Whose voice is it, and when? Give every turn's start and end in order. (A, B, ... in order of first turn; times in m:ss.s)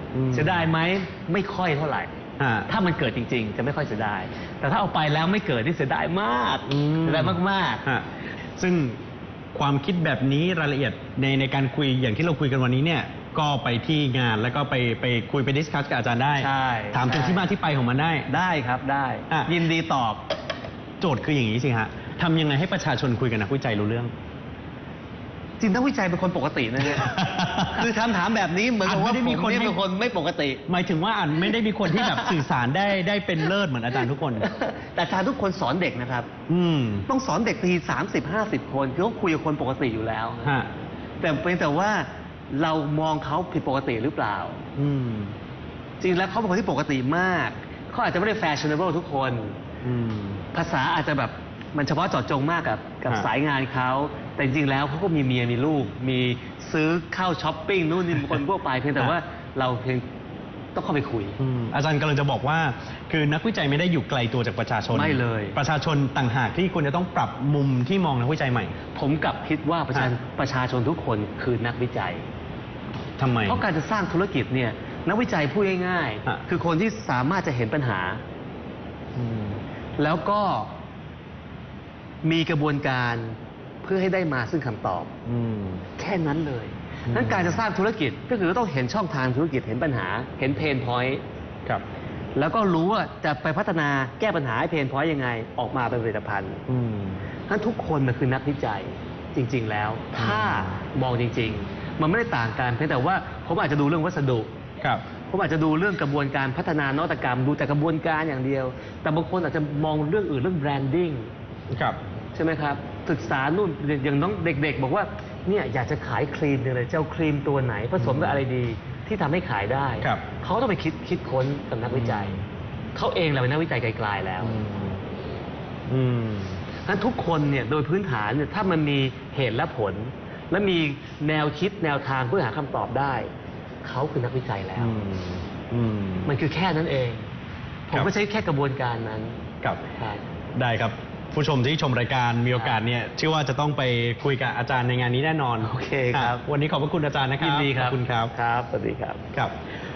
0:00.1-0:00.7 A
0:00.3-0:02.1 B
0:02.4-0:02.7 A
0:02.7-0:07.8 B
0:06.7-0:09.0 A
0:09.5-0:18.3 A
0:16.4-0:17.5 B
0:18.3-0:20.2 B
0:21.0-0:24.1 A
0:25.6-0:30.6 B
0:26.8-0:27.9 A
0:28.8-0:29.8 A
0:30.7-0:34.5 A
0:31.9-0:32.4 B
0:34.4-0:36.3 B
0:36.5-0:37.1 A
0:37.1-0:40.6 B
0:40.4-0:40.7 A
0:41.2-0:44.6 B
0:44.8-0:45.4 A
0:46.0-0:49.6 B
0:49.8-0:50.4 A
0:50.5-1:00.0 B
1:00.7-1:01.4 B
1:01.4-1:08.8 A
1:04.9-1:05.6 B
1:08.9-1:12.3 B
1:13.2-1:13.6 A
1:13.5-1:18.2 B
1:19.2-1:19.6 A
1:20.0-1:20.7 B
1:22.2-1:25.1 B
1:25.2-1:25.9 A
1:26.0-1:31.2 B
1:27.1-1:27.6 A
1:32.3-1:36.6 B
1:36.7-1:37.2 A
1:37.5-1:44.5 B
1:40.1-1:40.7 A
1:45.3-1:51.3 B
1:51.7-1:52.0 A
1:52.3-2:04.6 B
1:58.0-1:58.4 A
2:01.9-2:02.4 A
2:04.4-2:05.0 A
2:05.9-2:06.6 A
2:06.8-2:13.3 B
2:13.8-2:15.0 B
2:14.8-2:16.3 A
2:16.2-2:17.3 B
2:17.9-2:19.4 B
2:20.0-2:20.2 B
2:20.5-2:28.3 A
2:25.6-2:26.4 B
2:27.4-2:29.2 B
2:29.3-2:29.6 A